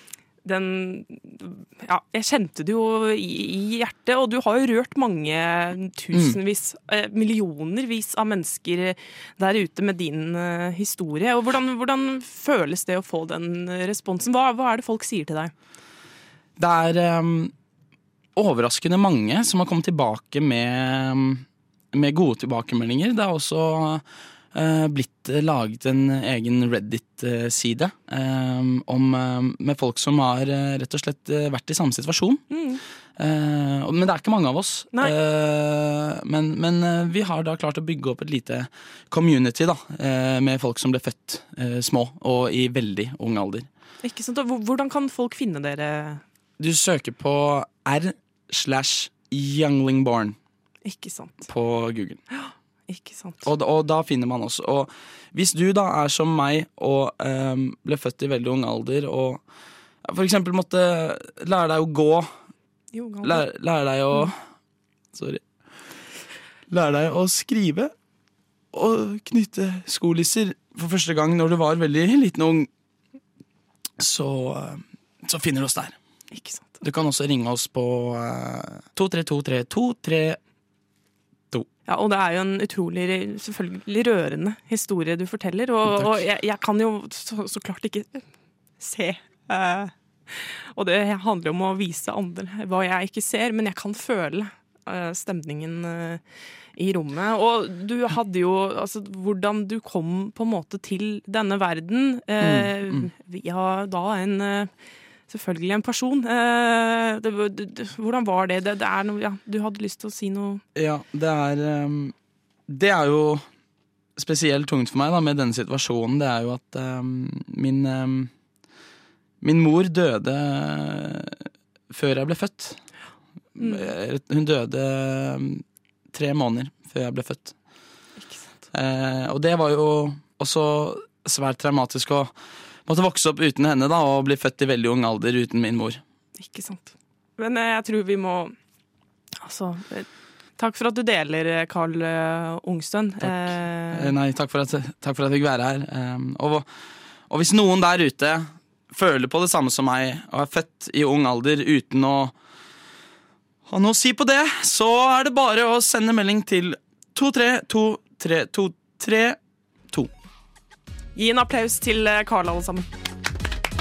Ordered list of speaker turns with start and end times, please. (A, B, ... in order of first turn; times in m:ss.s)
0:00.4-0:15.5 A
0:06.1-0:06.4 B
0:16.6-0:17.5 B
0:18.4-0:32.4 B
0:32.5-0:32.8 A
0:33.2-0:43.7 B
0:44.0-0:46.2 A
0:46.6-0:50.4 B
0:50.8-0:51.5 A
0:51.4-0:52.2 B
0:52.3-0:53.5 A
0:53.4-0:59.4 B
1:00.0-1:02.3 B
1:02.9-1:03.4 A
1:03.2-1:04.4 B
1:05.1-1:05.4 B
1:06.7-1:07.9 B
1:08.7-1:12.7 B
1:14.0-1:16.0 B
1:16.3-1:16.8 A
1:16.8-1:20.4 B
1:21.9-1:28.2 A
1:28.8-1:36.2 A
1:36.8-1:44.7 A
1:42.4-1:43.1 B
1:45.3-1:50.6 A
1:50.8-1:52.1 B
1:52.7-1:53.4 B
1:54.2-1:58.3 B
1:59.4-2:01.4 B
2:01.9-2:02.8 B
2:03.6-2:07.5 B
2:03.6-2:03.9 A
2:08.2-2:08.6 A
2:08.7-2:12.3 B
2:12.9-2:16.0 B
2:16.4-2:18.5 A
2:19.4-2:20.1 A
2:20.6-2:24.1 A
2:23.2-2:26.6 B
2:27.3-2:32.3 B
2:33.7-2:39.4 B
2:41.1-2:42.9 A